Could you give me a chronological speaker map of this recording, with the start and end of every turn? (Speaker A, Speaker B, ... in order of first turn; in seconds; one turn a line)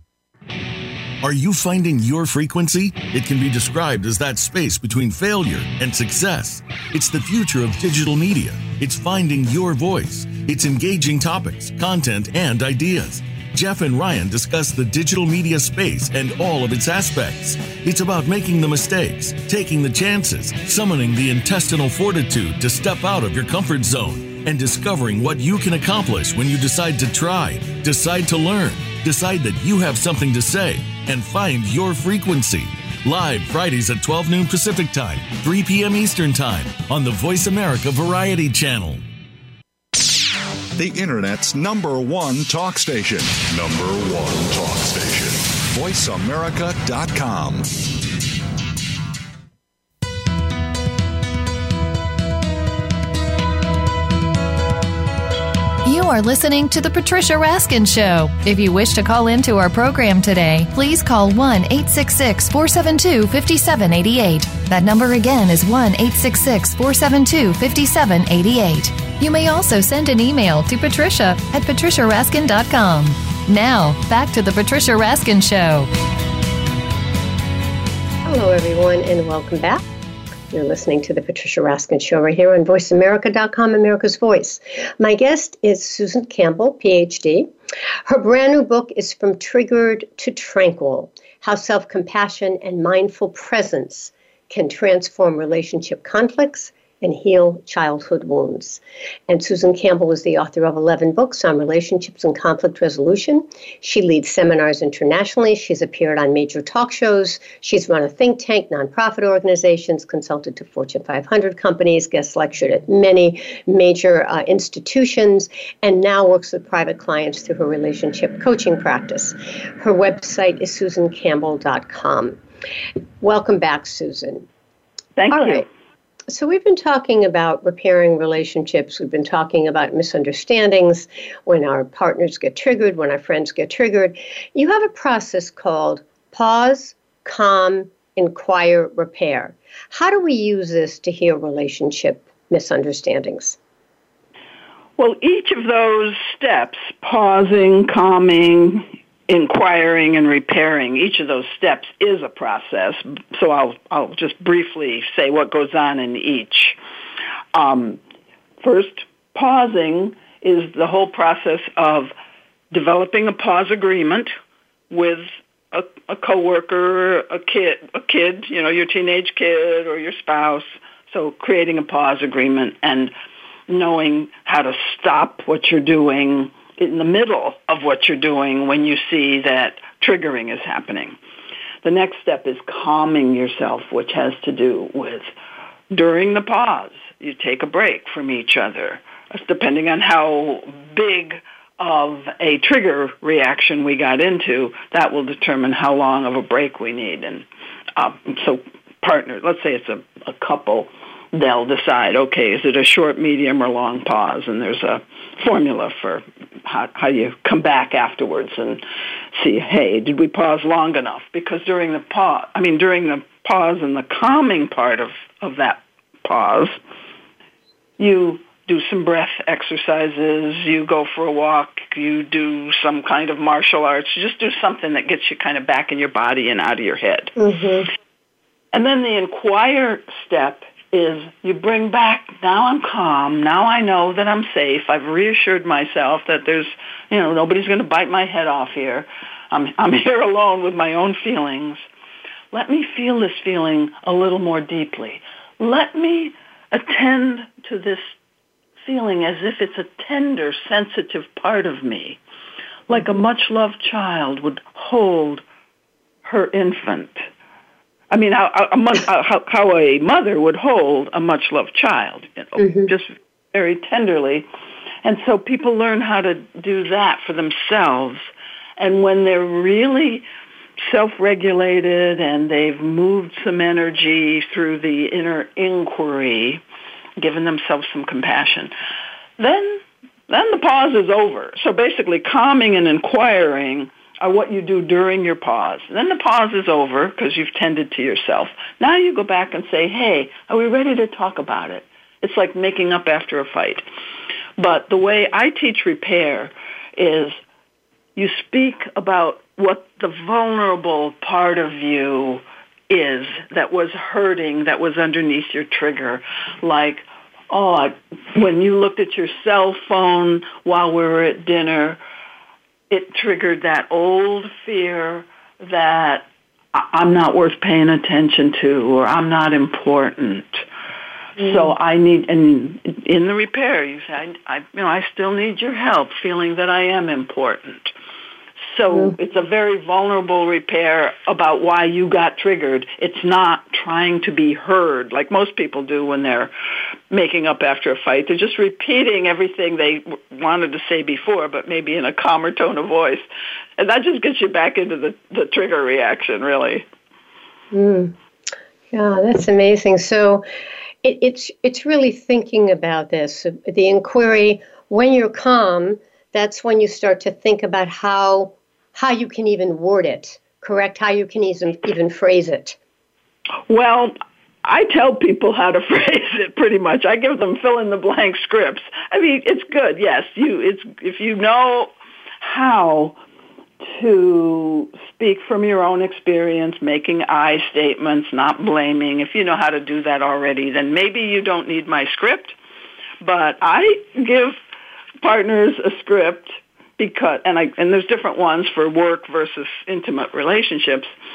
Speaker A: 1.2-39.0
Speaker B: 40.8-47.7
Speaker C: 55.8-75.9
Speaker D: 78.2-79.8
Speaker D: 80.5-87.5
Speaker D: 88.0-122.4
Speaker D: 123.2-124.5
Speaker E: 125.2-125.7
Speaker D: 125.3-125.7
Speaker D: 126.3-143.6
Speaker E: 145.0-156.8
Speaker E: 157.5-158.0
Speaker E: 158.6-162.1
Speaker E: 162.7-164.3
Speaker E: 164.9-173.1
Speaker E: 173.7-181.2
Speaker E: 181.8-185.3
Speaker E: 185.9-208.8
Speaker E: 209.3-216.7
Speaker E: 218.0-227.3
Speaker D: 227.4-227.9
Speaker E: 228.7-241.8
Speaker E: 242.5-248.1
Speaker E: 248.8-252.2
Speaker E: 252.9-255.4
Speaker E: 256.2-257.3
Speaker E: 258.1-264.5
Speaker D: 262.6-262.9
Speaker E: 265.0-270.2
Speaker E: 270.8-276.6
Speaker E: 277.2-278.7
Speaker E: 279.4-293.8
Speaker E: 294.6-297.4
Speaker E: 298.1-312.0
Speaker E: 312.9-320.6
Speaker E: 321.4-327.9
Speaker D: 321.4-321.7
Speaker E: 328.6-336.5
Speaker E: 337.1-343.2
Speaker E: 343.8-346.8
Speaker D: 347.7-348.1
Speaker D: 348.9-350.4
Speaker D: 351.0-362.8
Speaker E: 363.7-373.2
Speaker E: 373.8-382.6
Speaker E: 383.2-384.6
Speaker E: 385.2-391.1